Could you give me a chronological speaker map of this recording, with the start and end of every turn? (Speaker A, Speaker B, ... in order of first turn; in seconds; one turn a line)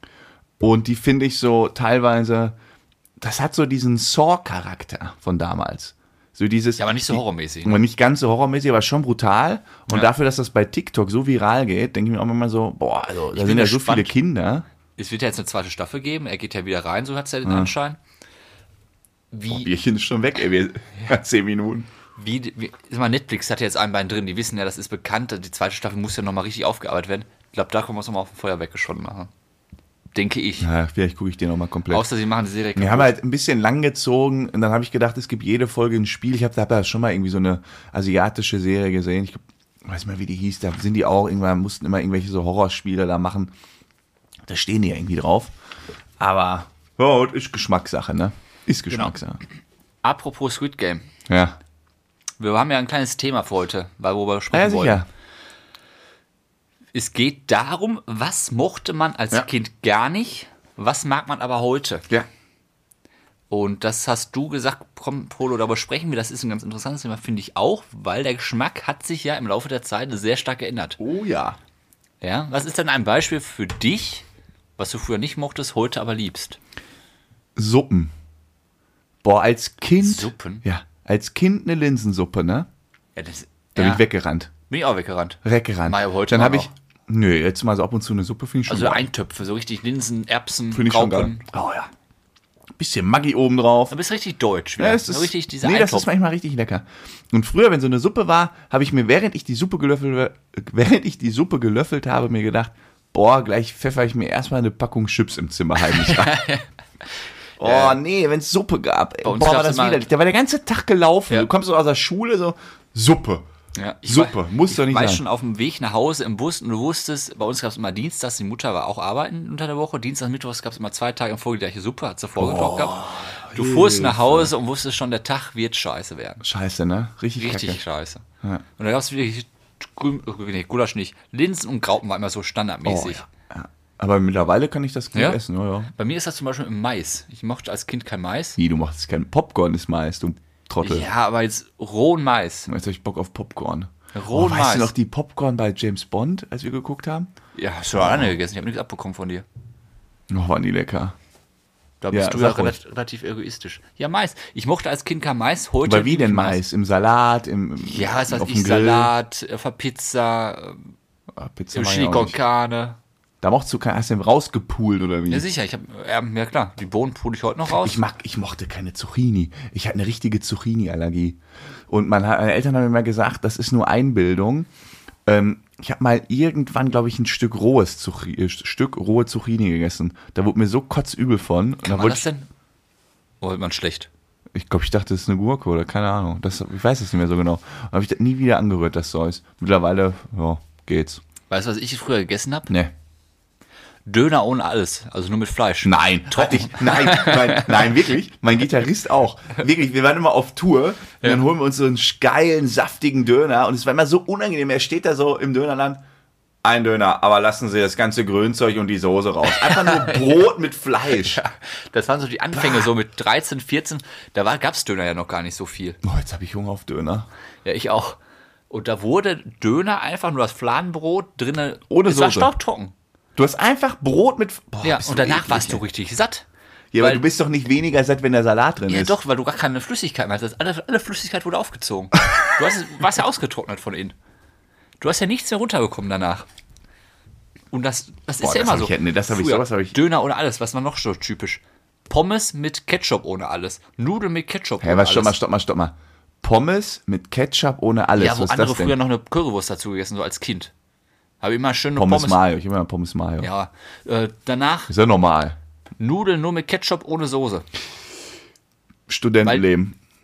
Speaker A: 0.6-2.5
Speaker A: 3.2-14.7
Speaker B: 6.8-7.8
Speaker B: 13.3-14.1
Speaker B: 15.0-18.0
Speaker A: 17.4-17.7
Speaker B: 19.3-19.7
Speaker A: 19.5-21.9
Speaker B: 22.1-29.3
Speaker B: 30.1-30.7
Speaker A: 30.6-32.0
Speaker B: 31.9-33.1
Speaker A: 32.7-43.5
Speaker A: 44.5-45.5
Speaker A: 46.2-49.4
Speaker B: 50.0-51.0
Speaker A: 51.3-51.6
Speaker B: 52.4-55.0
Speaker A: 54.5-55.1
Speaker B: 56.9-62.0
Speaker B: 63.5-71.0
Speaker A: 71.0-71.6
Speaker B: 72.2-74.2
Speaker B: 74.8-76.6
Speaker A: 77.5-78.1
Speaker A: 79.2-82.7
Speaker B: 80.0-80.6
Speaker B: 83.1-84.0
Speaker A: 83.7-84.5
Speaker B: 84.7-86.7
Speaker A: 85.4-89.0
Speaker B: 88.7-91.4
Speaker A: 90.7-91.9
Speaker A: 92.8-94.0
Speaker B: 93.9-96.1
Speaker A: 94.8-106.4
Speaker B: 105.8-106.7
Speaker A: 107.6-113.4
Speaker B: 107.6-108.0
Speaker B: 109.2-110.0
Speaker B: 113.7-126.4
Speaker A: 114.0-115.2
Speaker A: 122.4-124.5
Speaker A: 126.4-127.8
Speaker B: 127.4-128.2
Speaker B: 128.8-133.2
Speaker A: 132.8-135.9
Speaker B: 135.1-135.4
Speaker B: 135.9-138.6
Speaker A: 138.6-141.1
Speaker B: 140.8-142.7
Speaker A: 142.7-147.3
Speaker B: 144.1-144.9
Speaker B: 147.5-149.4
Speaker A: 147.9-148.3
Speaker A: 150.3-151.1
Speaker B: 152.0-156.6
Speaker A: 152.1-152.8
Speaker A: 155.8-159.1
Speaker B: 157.8-160.9
Speaker A: 161.3-162.4
Speaker B: 161.7-163.0
Speaker A: 163.4-165.4
Speaker B: 165.3-168.0
Speaker A: 167.7-171.4
Speaker A: 171.9-174.7
Speaker A: 175.2-182.2
Speaker B: 181.8-182.5
Speaker B: 183.4-184.1
Speaker A: 184.5-191.2
Speaker B: 191.5-192.7
Speaker B: 194.1-197.9
Speaker A: 195.8-206.0
Speaker A: 206.6-211.4
Speaker B: 209.4-210.4
Speaker B: 211.1-216.0
Speaker A: 212.6-212.9
Speaker A: 216.0-217.3
Speaker B: 217.6-218.2
Speaker B: 218.7-222.9
Speaker A: 221.9-222.5
Speaker A: 223.3-225.8
Speaker B: 224.8-226.4
Speaker A: 226.9-229.2
Speaker B: 227.0-227.2
Speaker B: 228.9-234.1
Speaker B: 235.0-236.5
Speaker B: 237.7-245.3
Speaker A: 238.4-240.0
Speaker A: 244.8-248.9
Speaker B: 248.2-250.7
Speaker B: 251.4-252.4
Speaker A: 251.9-253.5
Speaker B: 253.4-254.9
Speaker A: 254.9-255.6
Speaker B: 256.0-257.7
Speaker A: 259.1-259.9